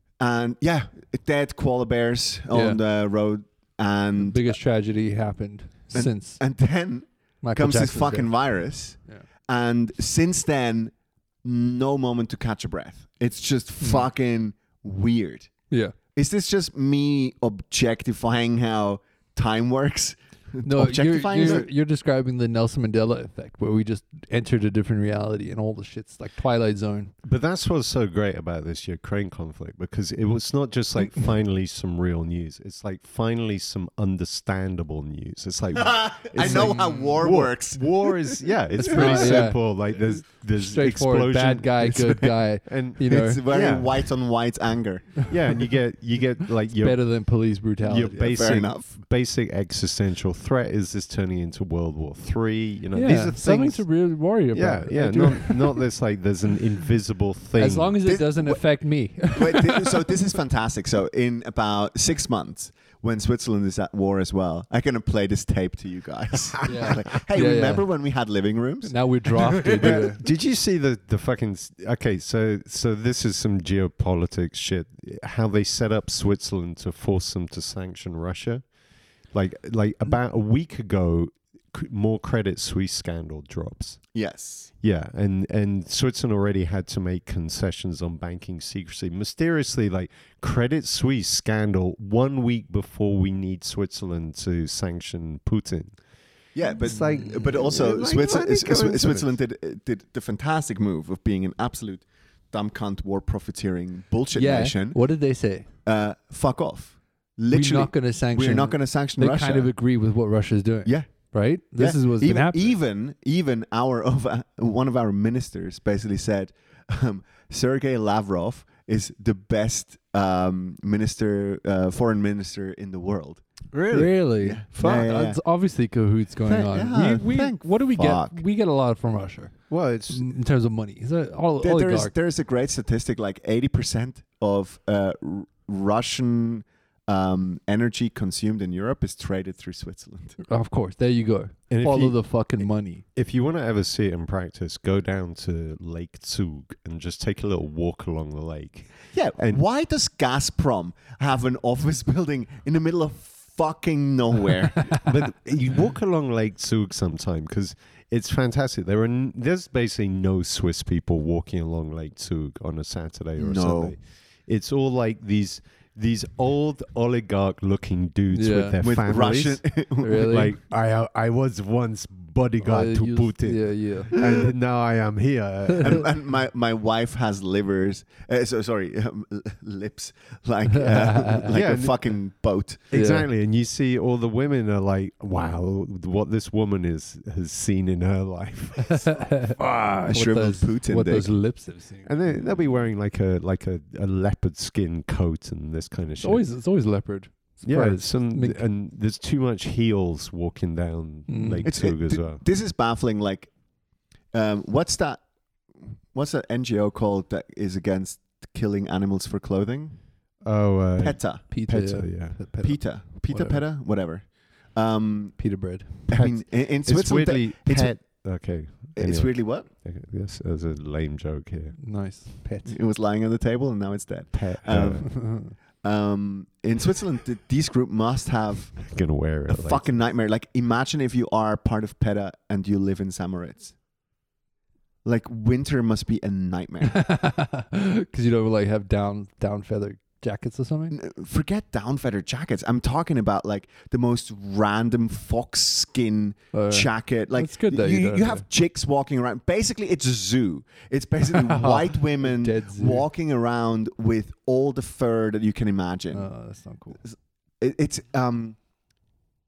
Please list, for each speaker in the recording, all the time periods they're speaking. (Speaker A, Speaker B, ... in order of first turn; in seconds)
Speaker A: 0.2-4.5, 5.9-15.5, 16.1-21.7, 35.8-39.4, 43.1-45.6, 48.1-49.0, 58.0-58.6, 59.3-70.1, 84.1-84.7, 96.5-105.0, 105.9-109.7, 110.9-125.4, 126.5-128.4, 131.6-140.4, 149.1-155.2, 163.4-164.0, 168.8-170.4, 175.8-182.9, 190.1-191.3, 201.7-203.5, 204.3-205.2, 205.8-210.0, 211.0-211.4, 212.6-215.4, 216.1-217.9, 218.9-219.7, 222.7-228.9, 229.5-233.8, 235.1-237.1, 240.9-256.3, 257.1-258.6
Speaker B: 2.5-2.8, 4.2-6.4, 7.4-8.3, 13.8-14.1, 15.7-16.0, 20.6-27.1, 36.4-37.0, 38.8-43.4, 46.8-48.4, 52.9-55.9, 57.6-60.3, 66.6-67.9, 68.9-70.2, 97.1-97.4, 104.3-105.7, 107.5-112.8, 123.9-129.6, 130.1-132.1, 140.4-143.0, 168.3-168.8, 170.0-170.5, 172.6-174.2, 180.7-181.5, 182.9-183.3, 188.8-192.7, 196.2-198.6, 201.3-201.7, 211.5-213.6, 215.4-216.1, 221.8-222.8, 225.0-225.5, 236.9-241.0, 246.5-248.4, 251.3-253.1, 256.1-257.0
Speaker C: 27.2-43.9, 45.3-47.0, 47.9-53.8, 54.5-58.0, 69.8-78.6, 79.3-84.0, 84.8-96.0, 96.8-99.3, 124.8-125.1, 129.7-130.2, 141.7-142.2, 143.2-149.6, 154.9-176.1, 181.5-181.9, 182.9-190.1, 192.1-196.4, 197.6-202.4, 210.4-212.4, 216.1-221.8, 224.3-225.1, 228.8-229.9